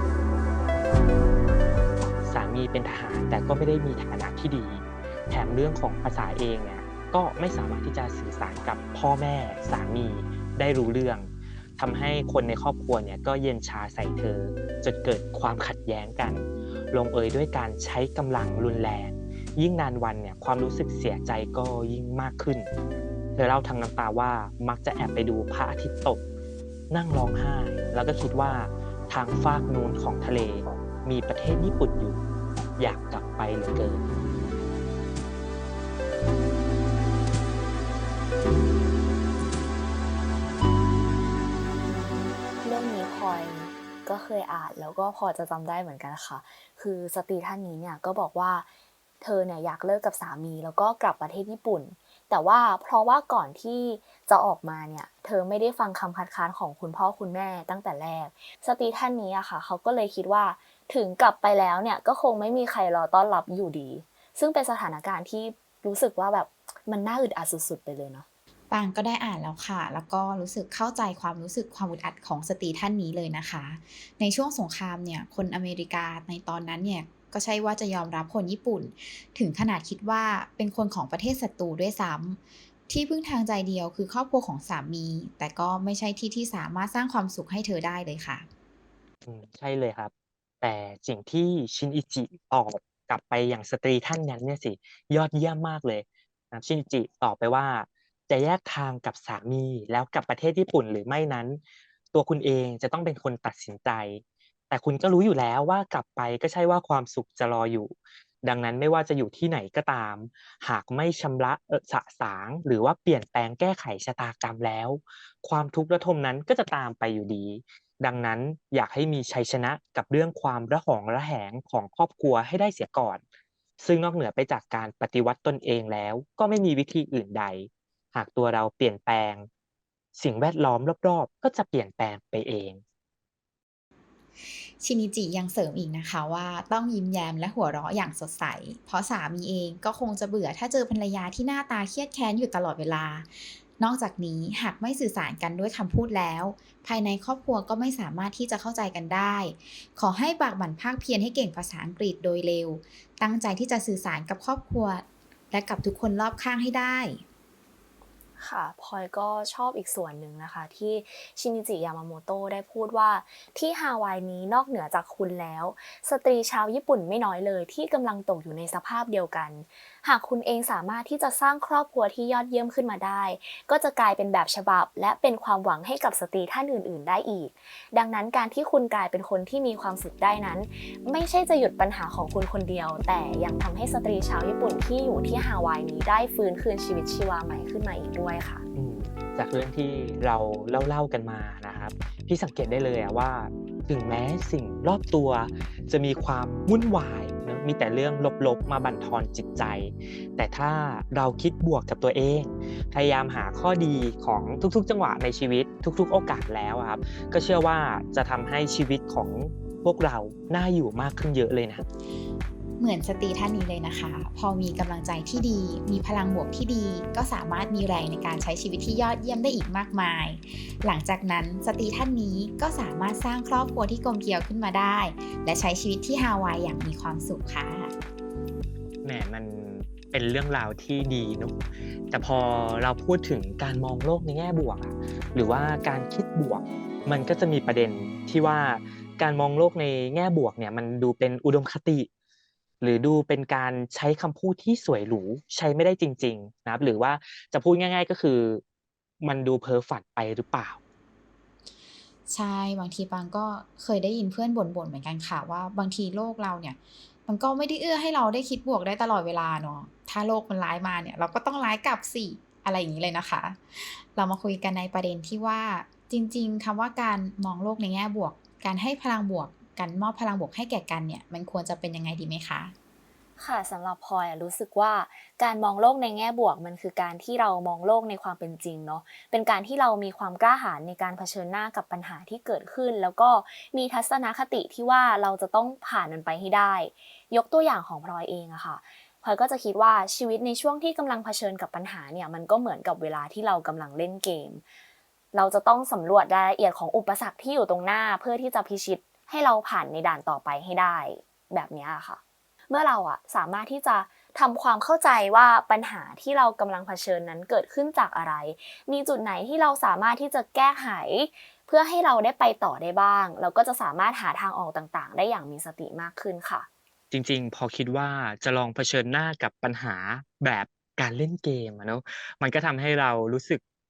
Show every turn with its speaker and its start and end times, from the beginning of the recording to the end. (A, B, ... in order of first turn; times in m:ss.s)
0:02.2-0:22.7 A
0:23.4-0:26.2 A
0:26.9-0:32.2 A
0:32.8-0:34.0 A
0:41.9-0:48.6 B
0:49.2-1:08.2 B
1:08.7-1:28.5 C
1:29.2-1:30.1 A
1:30.6-1:41.6 A
1:42.1-2:03.2 A
2:03.8-2:09.5 A
2:10.2-2:12.8 A
2:14.8-2:37.2 C
2:38.4-3:08.6 B
3:08.7-3:31.8 A
3:32.8-3:47.9 C
3:49.0-3:51.6 A
3:52.1-4:02.1 A
4:02.8-4:08.6 A
4:09.2-4:10.8 A
4:12.3-4:32.7 C
4:33.4-4:54.6 B
4:55.3-5:16.7 B
5:17.1-5:23.6 A